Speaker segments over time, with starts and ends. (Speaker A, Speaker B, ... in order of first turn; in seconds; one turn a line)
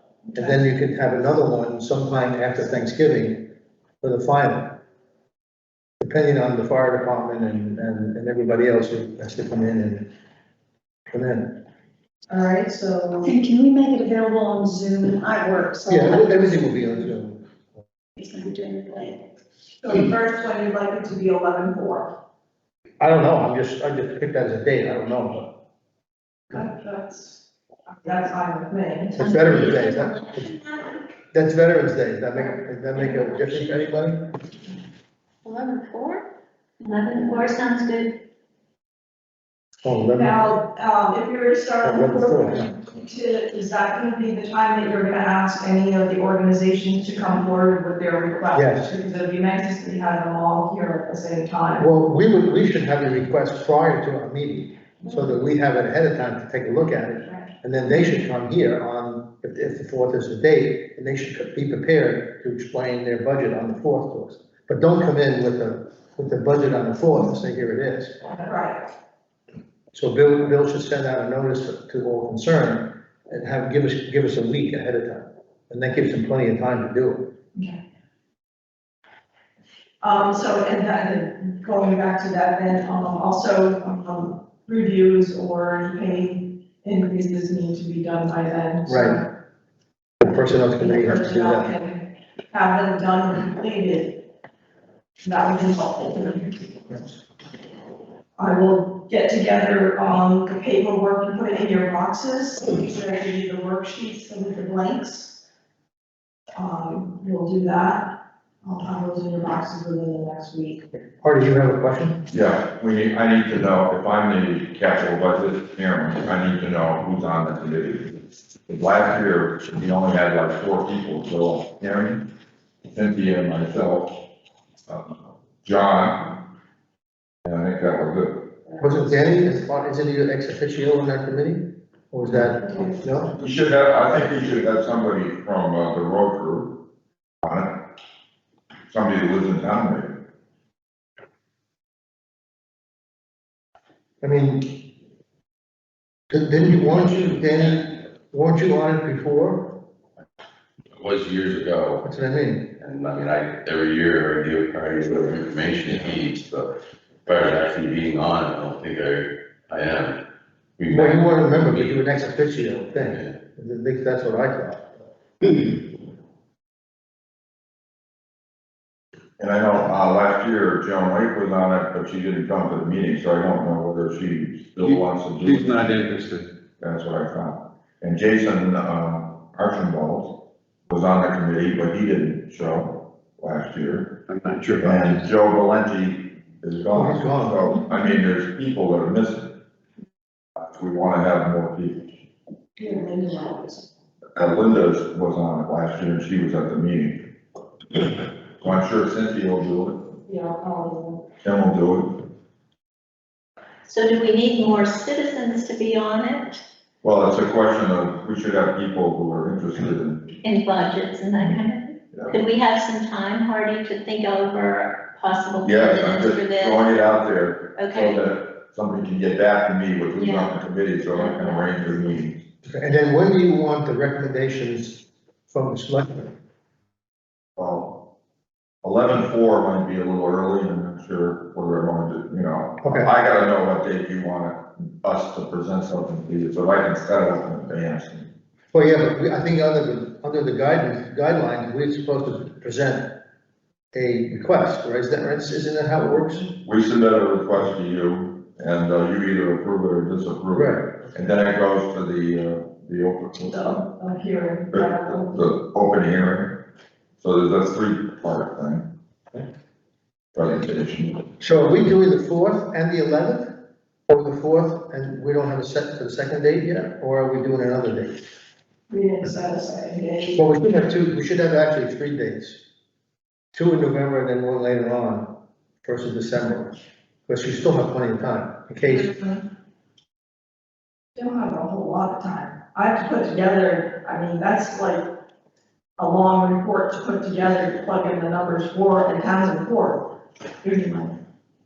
Speaker A: 0.3-3.4
Speaker A: 4.0-4.7
Speaker A: 6.0-10.0
Speaker A: 11.1-11.5
Speaker B: 12.3-13.3
Speaker C: 13.2-16.6
Speaker A: 15.9-17.4
Speaker C: 18.2-19.1
Speaker B: 19.8-22.1
Speaker A: 23.0-25.5
Speaker B: 26.5-27.4
Speaker B: 28.0-29.1
Speaker A: 29.1-30.4
Speaker D: 29.2-31.0
Speaker A: 31.3-34.2
Speaker D: 35.4-36.2
Speaker D: 36.8-38.1
Speaker A: 39.8-40.4
Speaker B: 40.1-51.9
Speaker A: 41.8-42.7
Speaker A: 48.5-48.9
Speaker A: 51.8-68.2
Speaker B: 68.3-68.8
Speaker A: 69.9-77.3
Speaker B: 80.0-89.3
Speaker A: 88.8-89.2
Speaker A: 90.2-91.7
Speaker B: 90.8-94.2
Speaker B: 95.2-97.0
Speaker B: 98.4-105.3
Speaker B: 106.5-108.1
Speaker B: 108.6-110.8
Speaker A: 111.2-112.2
Speaker E: 112.3-118.1
Speaker E: 118.7-122.2
Speaker E: 122.9-124.1
Speaker E: 124.9-126.2
Speaker E: 127.4-128.4
Speaker A: 128.8-133.3
Speaker B: 132.6-132.9
Speaker E: 133.4-136.7
Speaker E: 137.4-137.7
Speaker E: 138.9-140.1
Speaker A: 144.2-144.7
Speaker A: 146.3-149.7
Speaker F: 150.9-152.0
Speaker A: 152.0-152.7
Speaker F: 152.8-156.7
Speaker F: 157.2-160.2
Speaker F: 160.8-162.0
Speaker A: 160.9-164.9
Speaker F: 162.9-163.3
Speaker E: 169.4-175.9
Speaker G: 174.8-176.4
Speaker E: 176.8-180.3
Speaker E: 180.9-184.1
Speaker G: 184.3-185.2
Speaker E: 184.8-189.5
Speaker A: 186.9-187.6
Speaker E: 190.6-192.1
Speaker B: 192.8-193.8
Speaker E: 194.3-197.2
Speaker E: 198.6-200.0
Speaker B: 200.3-201.2
Speaker E: 201.4-202.2
Speaker D: 203.8-206.6
Speaker E: 207.0-210.3
Speaker D: 210.4-216.8
Speaker E: 215.6-222.4
Speaker D: 217.8-218.2
Speaker D: 220.2-220.5
Speaker D: 221.1-221.7
Speaker A: 222.7-226.3
Speaker E: 227.6-227.9
Speaker E: 228.8-238.3
Speaker A: 232.8-233.1
Speaker A: 238.7-243.1
Speaker A: 243.9-246.5
Speaker E: 246.6-253.7
Speaker A: 250.5-250.8
Speaker B: 253.5-255.3
Speaker E: 254.7-256.5
Speaker E: 257.2-258.8
Speaker E: 260.3-261.2
Speaker A: 261.4-263.5
Speaker A: 264.1-268.2
Speaker B: 268.9-270.4
Speaker A: 270.4-272.6
Speaker A: 273.5-275.3
Speaker A: 275.8-276.7
Speaker A: 277.3-279.1
Speaker B: 279.1-279.4
Speaker B: 281.1-285.0
Speaker B: 286.0-290.1
Speaker B: 290.6-291.1